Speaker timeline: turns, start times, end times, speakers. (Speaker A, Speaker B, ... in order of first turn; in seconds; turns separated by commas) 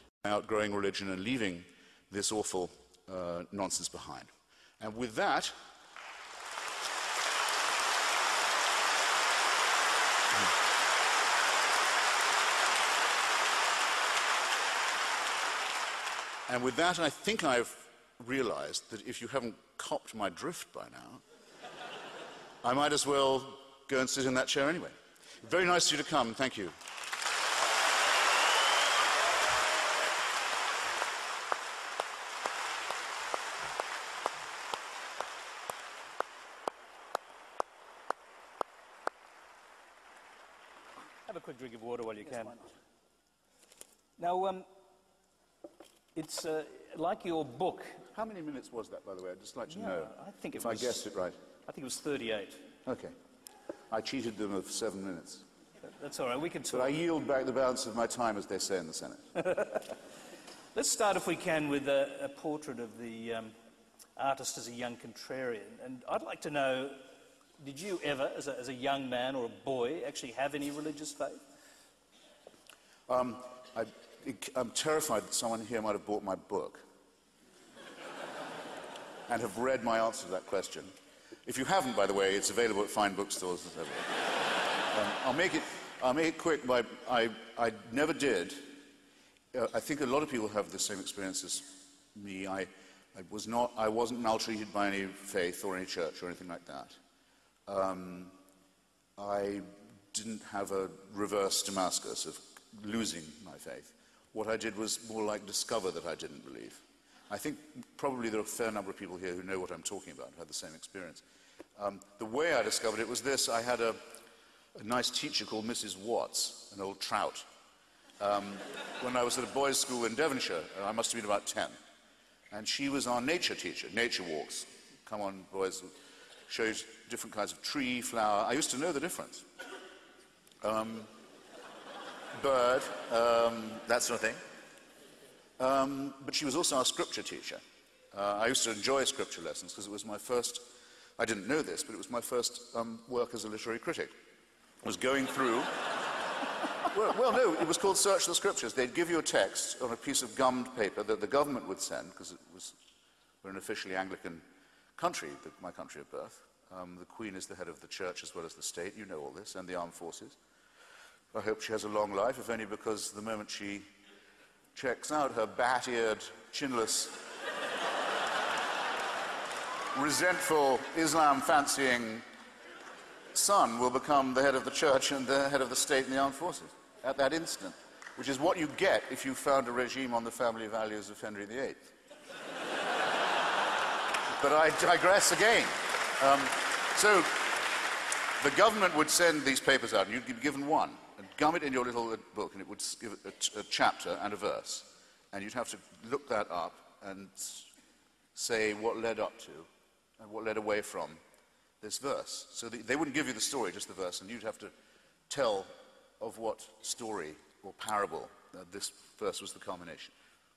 Speaker A: 0.2-5.5, Speaker A: 16.5-21.2, Speaker A: 22.6-26.7, Speaker B: 41.2-42.6, Speaker A: 42.3-42.7, Speaker B: 44.2-44.7, Speaker B: 46.2-48.0, Speaker A: 48.1-51.4, Speaker B: 49.7-51.0, Speaker B: 51.7-52.6, Speaker A: 52.9-53.2, Speaker A: 53.9-55.5, Speaker B: 55.9-57.0, Speaker A: 56.7-59.2, Speaker B: 59.5-59.8, Speaker B: 60.7-63.5, Speaker B: 64.2-67.0, Speaker B: 67.6-71.4, Speaker A: 73.1-76.8, Speaker A: 79.3-80.9, Speaker A: 81.5-84.2, Speaker A: 84.9-88.8, Speaker A: 89.5-97.0, Speaker A: 97.7-98.3, Speaker A: 99.2-111.2, Speaker A: 111.8-114.0, Speaker A: 114.8-117.5, Speaker A: 118.2-121.8, Speaker A: 122.5-125.9, Speaker A: 126.5-129.5, Speaker A: 130.6-131.1, Speaker A: 132.3-134.4, Speaker A: 135.6-144.1, Speaker A: 144.8-145.9, Speaker A: 146.8-152.8, Speaker A: 153.4-154.4, Speaker A: 155.0-160.4, Speaker A: 161.3-163.8, Speaker A: 164.8-167.2, Speaker A: 169.9-172.2, Speaker A: 173.3-181.9, Speaker A: 184.4-187.7, Speaker A: 188.4-197.7, Speaker A: 198.3-199.7, Speaker A: 200.2-201.2, Speaker A: 201.8-204.7, Speaker A: 205.3-205.7, Speaker A: 206.2-210.1